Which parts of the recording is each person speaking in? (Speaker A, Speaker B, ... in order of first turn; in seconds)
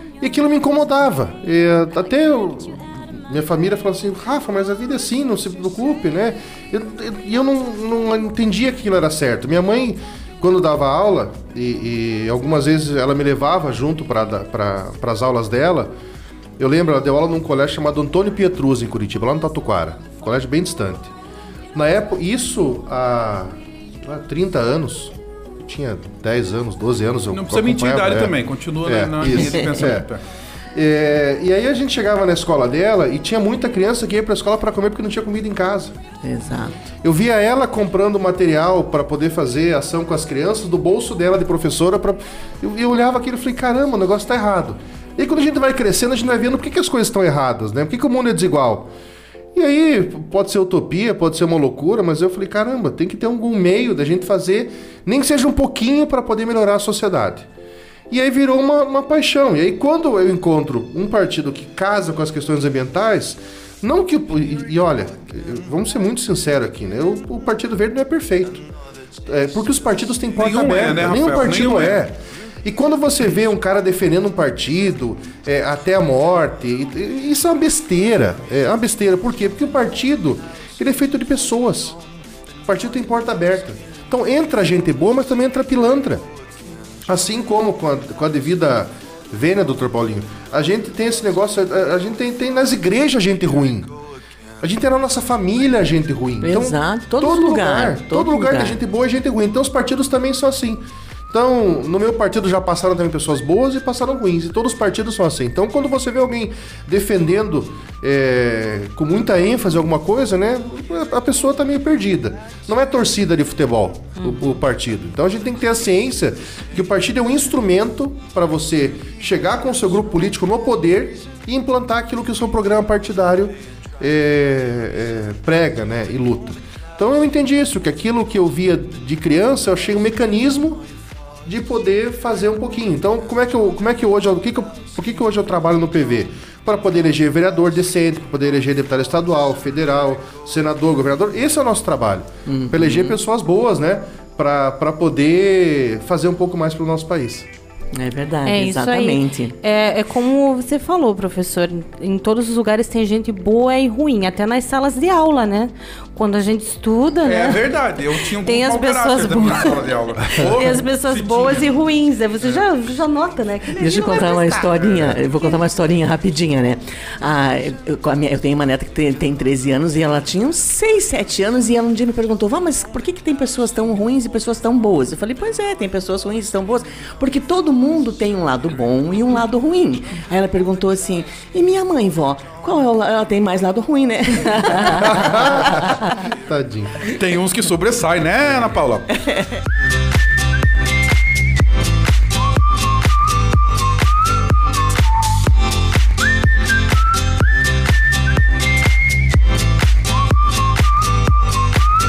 Speaker A: 0.2-15.9, 16.6-21.1, 21.7-30.1, 30.7-36.0, 37.0-48.9, 49.5-57.5, 58.1-68.6, 69.2-82.0, 82.7-86.2, 87.0-93.9, 94.6-130.8, 131.4-147.4, 185.0-185.8, 186.4-186.9
Speaker B: 27.3-30.2, 70.4-72.0, 157.2-161.7, 164.8-165.1, 187.0-189.1
Speaker C: 29.3-29.9, 36.2-36.8, 96.4-98.8, 142.4-143.2, 147.9-149.5, 163.8-185.3
Speaker D: 148.4-157.7, 158.4-159.8, 160.3-165.6